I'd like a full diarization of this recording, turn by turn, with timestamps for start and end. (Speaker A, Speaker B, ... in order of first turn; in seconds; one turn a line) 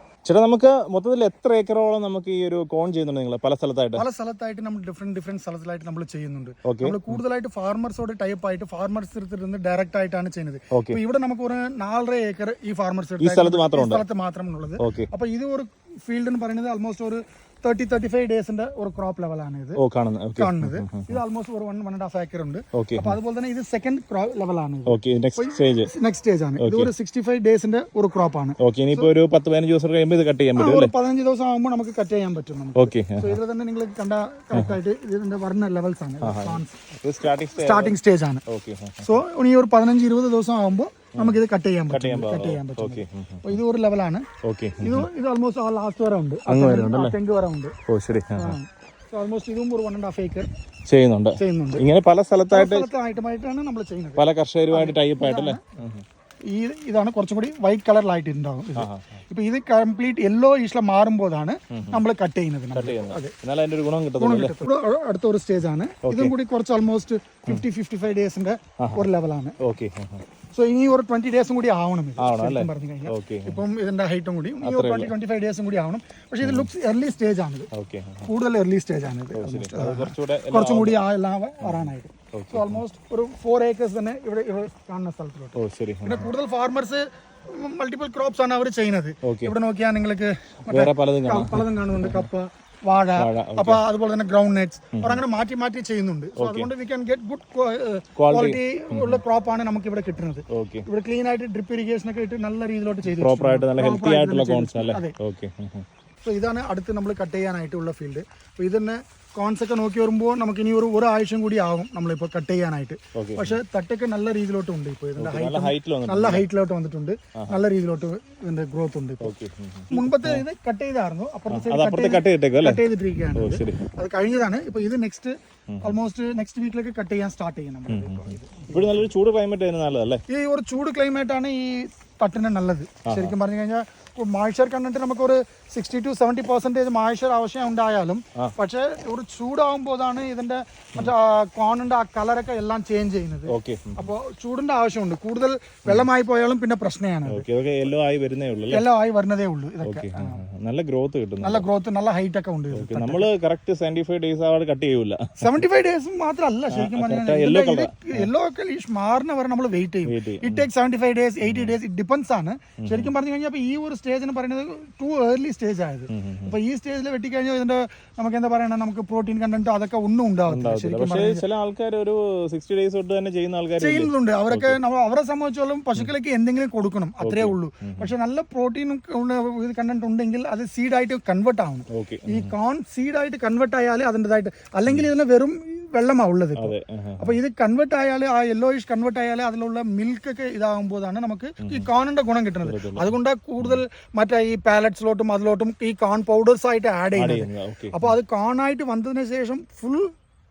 Speaker A: 0.2-4.0
Speaker B: 3.9-19.8
Speaker A: 6.7-7.2
Speaker A: 10.7-11.0
Speaker A: 13.2-14.0
Speaker A: 14.8-15.1
Speaker A: 19.8-21.1
Speaker B: 20.4-29.1
Speaker A: 22.7-23.2
Speaker A: 24.9-25.9
Speaker A: 26.6-26.9
Speaker A: 28.6-30.9
Speaker B: 30.6-36.8
Speaker A: 32.8-33.4
Speaker A: 36.2-37.9
Speaker B: 37.5-38.4
Speaker A: 38.5-39.1
Speaker B: 39.0-44.2
Speaker A: 41.9-43.6
Speaker A: 44.4-45.1
Speaker B: 44.8-47.7
Speaker A: 46.5-47.1
Speaker A: 47.9-48.6
Speaker B: 48.4-50.5
Speaker A: 50.9-52.9
Speaker B: 51.4-51.8
Speaker B: 52.5-55.6
Speaker A: 54.2-56.0
Speaker B: 56.5-63.3
Speaker A: 58.8-59.0
Speaker A: 61.7-62.0
Speaker A: 62.7-64.7
Speaker B: 64.2-69.6
Speaker A: 66.0-66.3
Speaker A: 68.8-69.0
Speaker A: 69.6-70.2
Speaker B: 70.5-77.7
Speaker A: 72.2-73.6
Speaker A: 74.6-75.1
Speaker A: 76.4-76.7
Speaker A: 77.7-78.3
Speaker B: 78.2-105.2
Speaker A: 79.3-81.0
Speaker A: 81.6-82.8
Speaker A: 85.5-86.3
Speaker A: 89.2-89.5
Speaker A: 90.7-92.3
Speaker A: 93.2-93.8
Speaker A: 95.0-95.2
Speaker A: 96.4-96.7
Speaker A: 98.2-99.2
Speaker A: 100.5-100.8
Speaker A: 103.0-105.8
Speaker B: 106.2-119.3
Speaker A: 113.1-113.6
Speaker A: 115.2-116.5
Speaker A: 119.2-120.4
Speaker B: 119.9-128.9
Speaker A: 121.5-123.8
Speaker A: 125.7-126.0
Speaker A: 127.9-130.2
Speaker B: 130.3-147.4
Speaker A: 133.1-133.3
Speaker A: 143.5-144.1
Speaker A: 147.3-148.9
Speaker B: 148.7-150.4
Speaker A: 149.8-151.7
Speaker B: 151.4-153.2
Speaker A: 152.7-155.5
Speaker B: 155.4-171.4
Speaker A: 156.7-158.3
Speaker A: 160.1-160.7
Speaker A: 161.4-161.8
Speaker A: 162.8-163.1
Speaker A: 166.1-166.5
Speaker A: 170.5-174.8
Speaker B: 173.8-200.1
Speaker A: 177.2-178.1
Speaker A: 181.9-182.5
Speaker A: 186.6-187.3
Speaker A: 191.6-191.9
Speaker A: 192.6-193.8
Speaker A: 197.1-198.1